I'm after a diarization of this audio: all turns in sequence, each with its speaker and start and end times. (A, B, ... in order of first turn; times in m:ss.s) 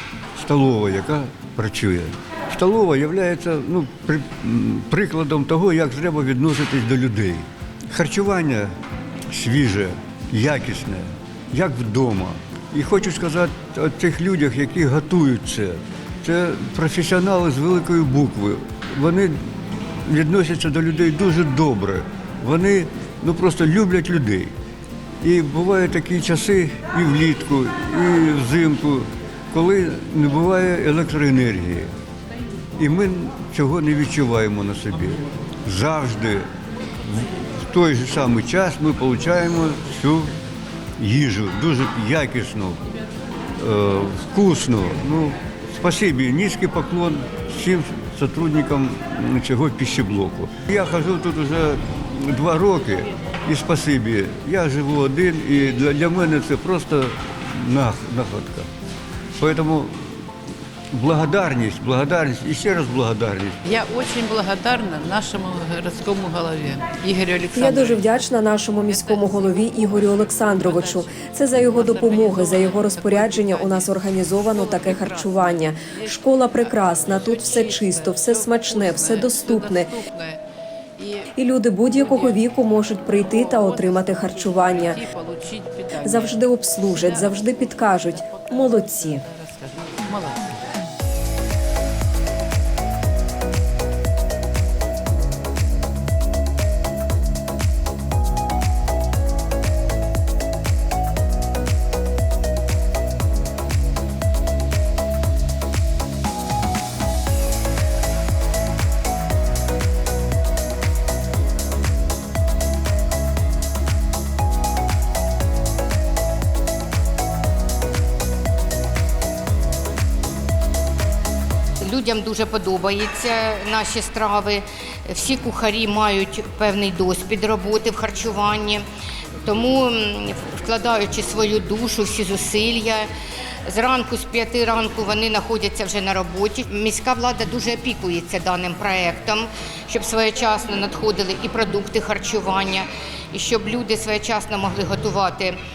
0:00.3-0:08.7 A
0:09.3-0:24.5 A
0:25.2-0:31.9 A
0:32.8-0:36.5 A
0:37.0-0:40.4 A
0:41.0-0:42.8 A
0:43.6-0:58.7 A
0:59.3-1:00.3 A
1:00.9-1:03.6 A
1:03.6-1:08.2 B
1:07.5-1:20.0 C
1:08.8-1:20.4 B
1:21.0-1:21.2 B
1:21.3-1:25.0 C
1:21.9-1:22.4 B
1:23.2-1:30.6 B
1:26.0-1:29.2 C
2:01.8-2:08.8 D
2:09.4-2:13.1 D
2:13.6-2:25.6 D